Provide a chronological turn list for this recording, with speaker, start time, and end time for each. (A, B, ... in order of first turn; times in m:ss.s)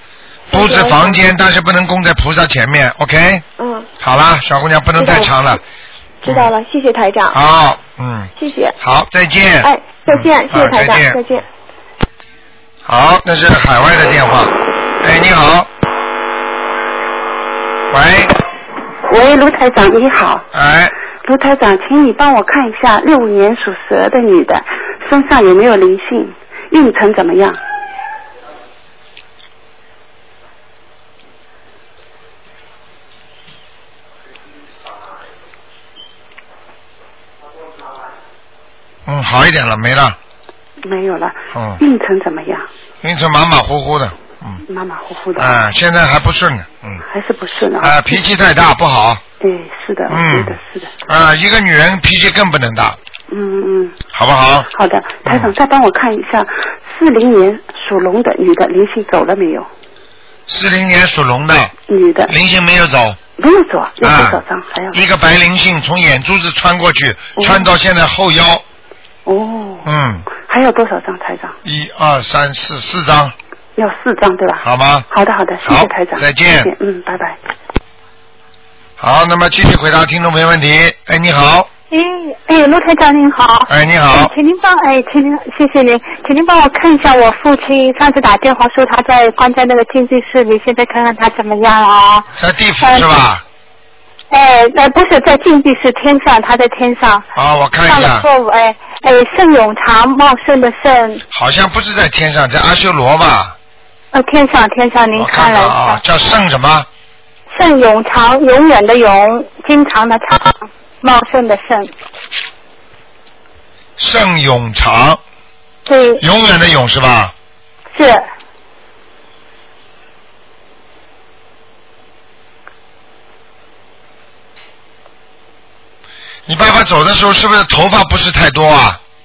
0:00.5-0:01.2 A
0:00.5-0:03.4 B
0:03.6-0:03.9 A
0:04.0-0:05.6 B
0:05.0-0:05.4 A
0:06.2-0:07.4 A
0:06.2-0:06.5 B
0:07.3-0:11.2 B
0:08.4-0:08.8 A
0:09.6-0:11.4 A
0:12.8-0:15.7 B
0:17.9-0:18.3 B
0:19.1-0:20.4 C
0:20.5-0:20.9 B
0:21.2-0:27.6 C
0:39.1-0:40.2 B
0:40.8-0:42.7 C
0:41.5-0:41.8 B
0:43.0-0:44.6 B
0:44.7-0:45.6 C
0:45.4-0:47.0 B
0:47.1-0:48.2 C
0:47.8-0:49.2 B
0:49.4-0:50.9 C
0:50.1-0:53.0 B
0:53.3-0:54.0 C
0:54.1-0:54.7 B
0:54.7-0:59.7 C
0:55.2-0:55.5 B
1:00.5-1:01.7 B
1:01.9-1:02.3 C
1:02.3-1:03.2 B
1:03.4-1:05.0 C
1:04.0-1:08.6 B
1:07.4-1:07.6 C
1:09.2-1:11.6 C
1:09.8-1:10.2 B
1:11.6-1:13.3 B
1:13.8-1:17.4 C
1:14.6-1:15.1 B
1:15.6-1:16.7 B
1:19.0-1:21.7 B
1:21.9-1:32.3 D
1:23.7-1:24.3 B
1:32.4-1:33.4 B
1:32.8-1:33.1 D
1:34.3-1:37.2 D
1:37.4-1:38.2 B
1:37.9-1:41.2 D
1:41.3-1:43.6 B
1:44.1-1:46.0 D
1:45.1-1:46.9 B
1:47.5-1:51.9 D
1:54.0-1:55.2 B
1:55.9-1:56.2 D
1:56.2-1:57.3 B
1:57.9-1:58.2 D
2:06.5-2:09.0 B